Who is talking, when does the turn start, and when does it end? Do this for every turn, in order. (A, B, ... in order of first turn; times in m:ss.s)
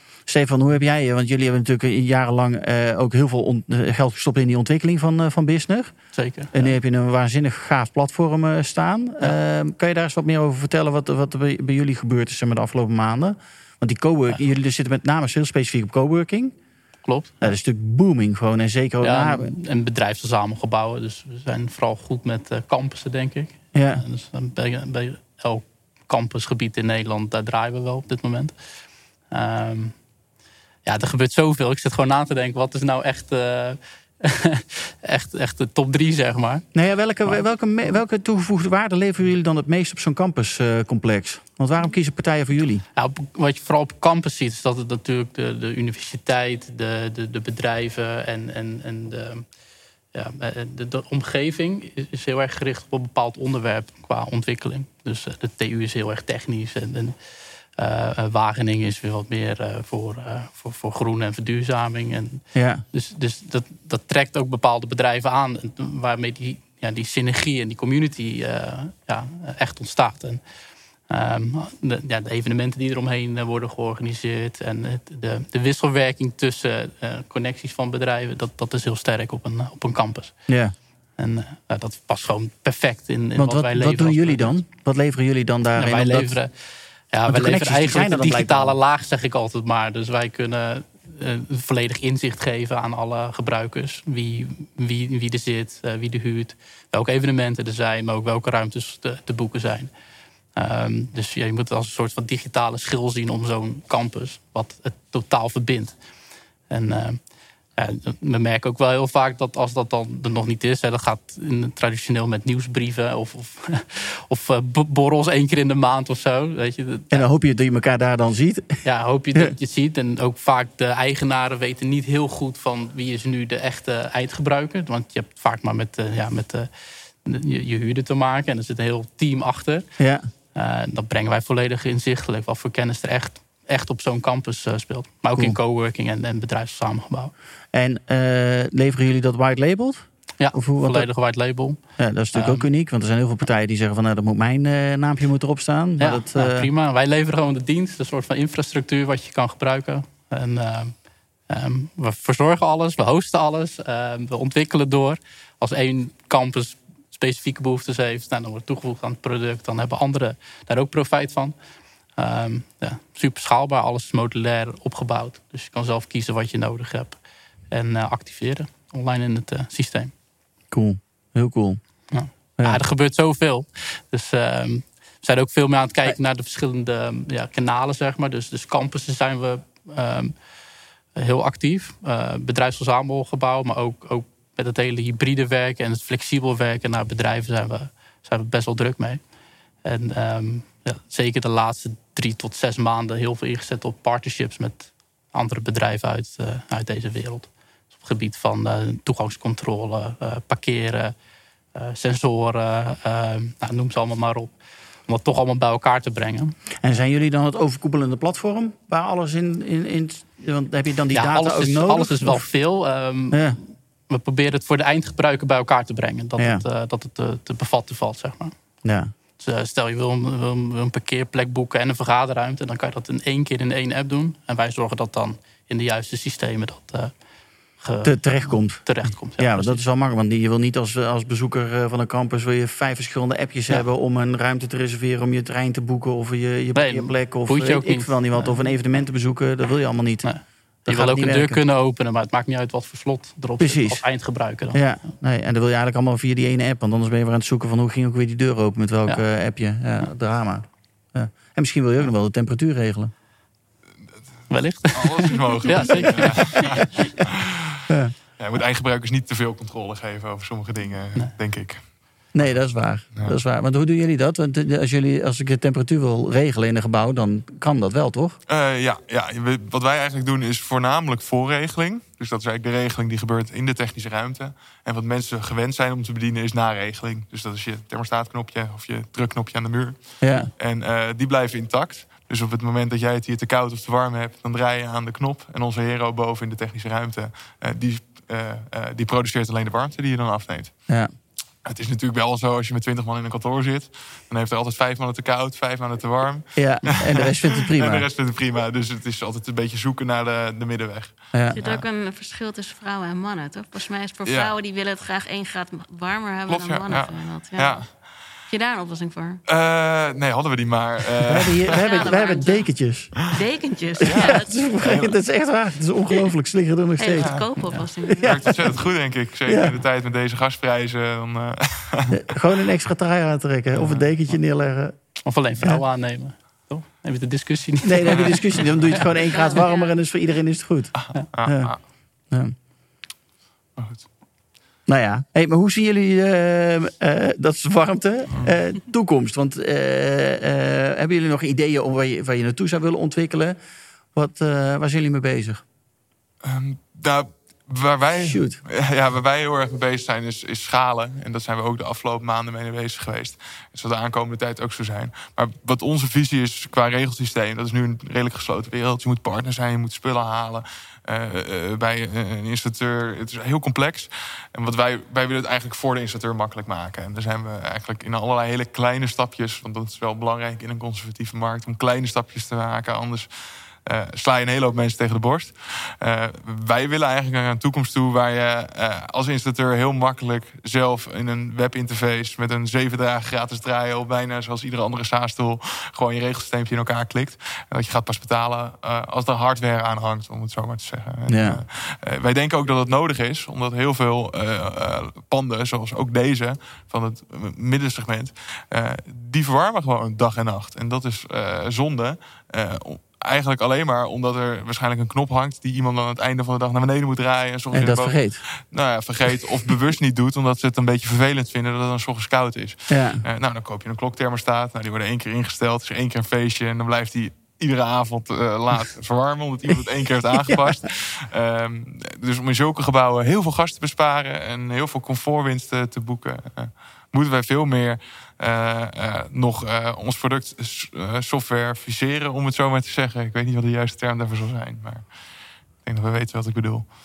0:00.3-0:16.5 A
0:06.1-0:06.8 B
0:17.0-0:17.5 B
0:17.4-0:19.5 A
0:19.0-0:30.0 B
0:23.7-0:24.0 A
0:30.8-0:36.7 B
0:36.7-0:42.8 A
0:42.9-0:49.4 B
0:50.1-1:10.4 B
1:02.5-1:02.8 A
1:11.0-1:20.4 B
1:20.5-1:20.7 A
1:21.2-1:24.5 B
1:23.4-1:26.4 A
1:25.8-1:39.9 B
1:27.3-1:28.8 A
1:40.5-1:46.0 B
1:46.7-1:47.2 B
1:47.7-1:57.2 B
1:57.1-1:58.8 A
1:58.8-2:09.9 B
2:10.0-2:10.2 A
2:10.5-2:17.3 B
2:17.7-2:21.1 A
2:20.4-2:21.8 B
2:22.0-2:26.7 A
2:22.3-2:22.6 B
2:26.0-2:41.6 B
2:42.1-2:50.1 B
2:50.7-2:51.8 A
2:52.1-3:00.3 B
3:01.1-3:09.2 B
3:09.8-3:21.1 B
3:21.7-3:26.6 B
3:26.8-3:32.5 A
3:31.1-3:38.6 B
3:33.3-3:33.6 A
3:36.4-3:36.6 A
3:38.8-3:39.1 A
3:39.4-3:47.2 B
3:47.8-3:49.8 B
3:48.0-4:01.6 A
3:56.7-3:58.6 B
4:00.2-4:04.8 B
4:03.6-4:04.0 A
4:04.7-4:13.1 A
4:14.5-4:16.8 B
4:14.9-4:17.8 C
4:16.2-4:16.7 A
4:17.9-4:18.1 A
4:18.4-4:21.8 C
4:22.3-4:28.4 A
4:28.5-4:50.7 C
4:40.2-4:40.5 A
4:51.6-5:01.8 C
4:56.6-4:58.0 A
5:01.5-5:07.9 D
5:04.2-5:04.5 C
5:06.5-5:07.9 C
5:08.5-5:09.4 D
5:09.5-5:11.8 C
5:11.3-5:13.3 A
5:11.7-5:12.6 D
5:13.3-5:14.5 D
5:14.0-5:17.4 A
5:14.0-5:15.2 C
5:17.0-5:18.5 D
5:17.2-5:17.5 C
5:18.1-5:22.2 C
5:18.2-5:18.6 A
5:19.4-5:19.7 A
5:22.1-5:25.0 A
5:23.8-5:24.0 C
5:25.3-5:29.1 B
5:27.8-5:31.7 A
5:28.1-5:28.4 C
5:29.3-5:29.9 D
5:31.0-5:31.8 C
5:33.8-5:34.1 C
5:34.9-5:43.6 A
5:44.1-5:45.6 A
5:46.4-6:13.3 C
5:48.2-5:48.6 A
6:13.9-7:15.0 C
6:31.3-6:31.6 A
6:47.7-6:48.4 A
6:52.9-6:53.2 A
7:15.8-7:16.9 C